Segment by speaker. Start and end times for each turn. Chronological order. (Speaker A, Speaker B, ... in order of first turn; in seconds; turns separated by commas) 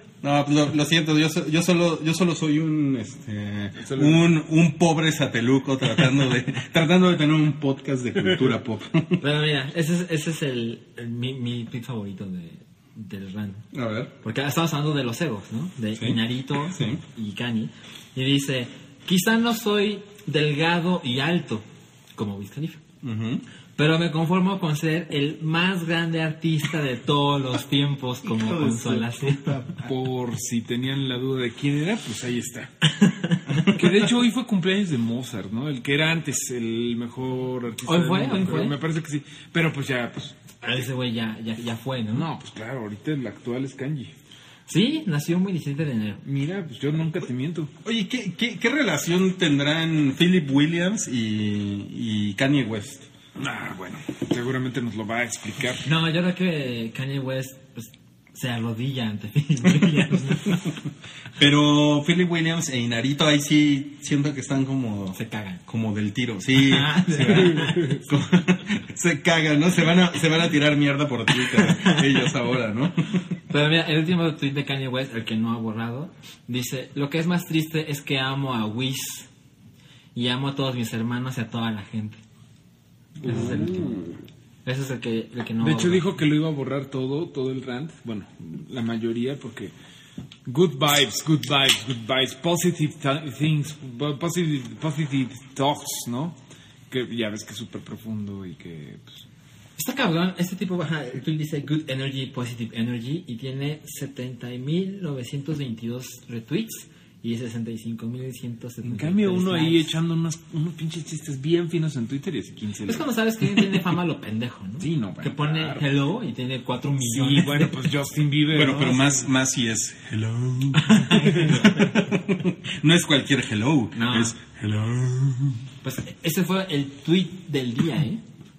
Speaker A: 0.2-9.2, Speaker B: 3.8-4.2, Speaker C: 9.2-13.6, Speaker A: 13.7-14.1, Speaker C: 14.2-21.6, Speaker A: 16.0-17.0, Speaker C: 22.1-22.8, Speaker A: 23.0-23.4, Speaker C: 23.8-29.7, Speaker A: 28.4-29.0, Speaker B: 29.7-32.7, Speaker C: 33.0-33.7, Speaker B: 33.6-40.4, Speaker C: 37.8-38.7, Speaker C: 40.6-42.2, Speaker B: 42.1-44.1, Speaker C: 44.7-46.2, Speaker B: 46.2-47.7, Speaker A: 47.8-53.1, Speaker B: 53.4-55.8, Speaker C: 55.8-60.7, Speaker A: 61.4-73.2, Speaker C: 65.1-65.6, Speaker C: 66.5-68.0, Speaker B: 67.2-67.9, Speaker C: 71.6-72.0, Speaker C: 73.5-79.3, Speaker C: 80.1-82.2, Speaker B: 83.2-84.1, Speaker C: 83.2-84.1, Speaker C: 84.6-86.0, Speaker B: 85.6-89.7, Speaker B: 90.5-96.3, Speaker B: 96.9-99.2, Speaker C: 99.8-109.9, Speaker B: 108.8-113.8, Speaker C: 112.8-117.7, Speaker B: 114.8-115.8, Speaker B: 117.0-119.3, Speaker A: 118.5-125.6, Speaker C: 120.7-122.0, Speaker C: 123.9-124.3, Speaker C: 125.8-128.2